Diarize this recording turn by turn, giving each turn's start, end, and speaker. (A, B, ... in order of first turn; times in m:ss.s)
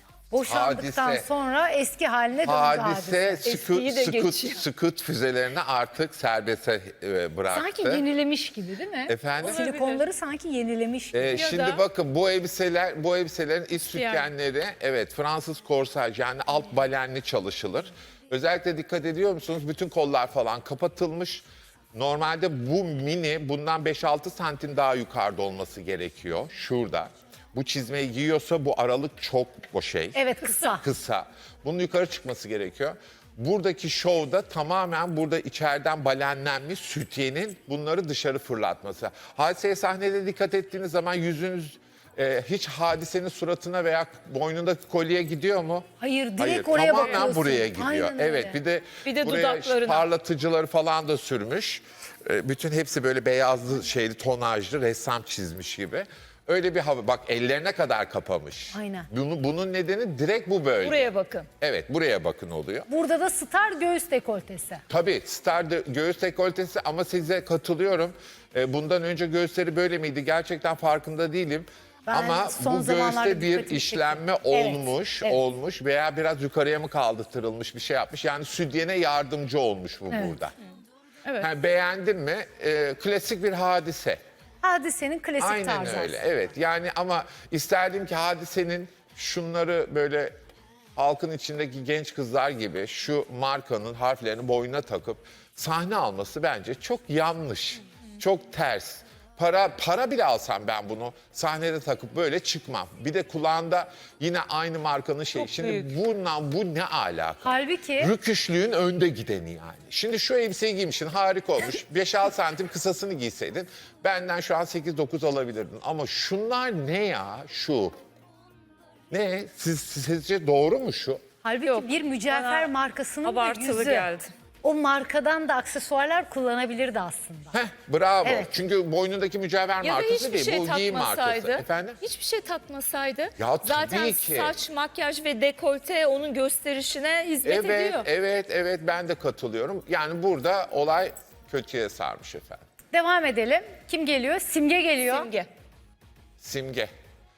0:00.3-0:03.5 A
0:00.4-0:01.3 B
0:02.4-0:08.0 B
0:03.4-0:04.6 C
0:07.5-0:11.5 A
0:09.1-0:09.6 B
0:09.4-0:10.0 C
0:11.1-0:45.8 B
0:11.3-0:11.8 C
0:13.9-0:14.3 C
0:30.1-0:30.8 A
0:46.0-0:48.6 A
0:46.4-1:02.9 B
0:49.0-0:50.1 C
0:58.7-0:59.1 A
1:00.8-1:01.5 C
1:02.9-1:04.8 A
1:04.9-1:20.5 B
1:12.1-1:15.4 A
1:20.1-1:20.4 A
1:21.4-1:24.2 B
1:24.6-1:26.2 A
1:25.4-1:30.3 B
1:31.0-1:58.0 B
1:45.4-1:45.9 C
1:47.4-1:48.1 A
1:59.1-2:01.2 B
2:01.4-2:04.1 A
2:01.6-2:02.7 C
2:03.2-2:04.3 C
2:04.6-2:07.6 A
2:07.5-2:12.0 B
2:08.2-2:08.5 A
2:09.8-2:18.1 C
2:13.4-2:14.6 B
2:17.4-2:22.6 B
2:22.9-2:25.3 A
2:25.0-2:25.5 C
2:26.4-2:26.9 B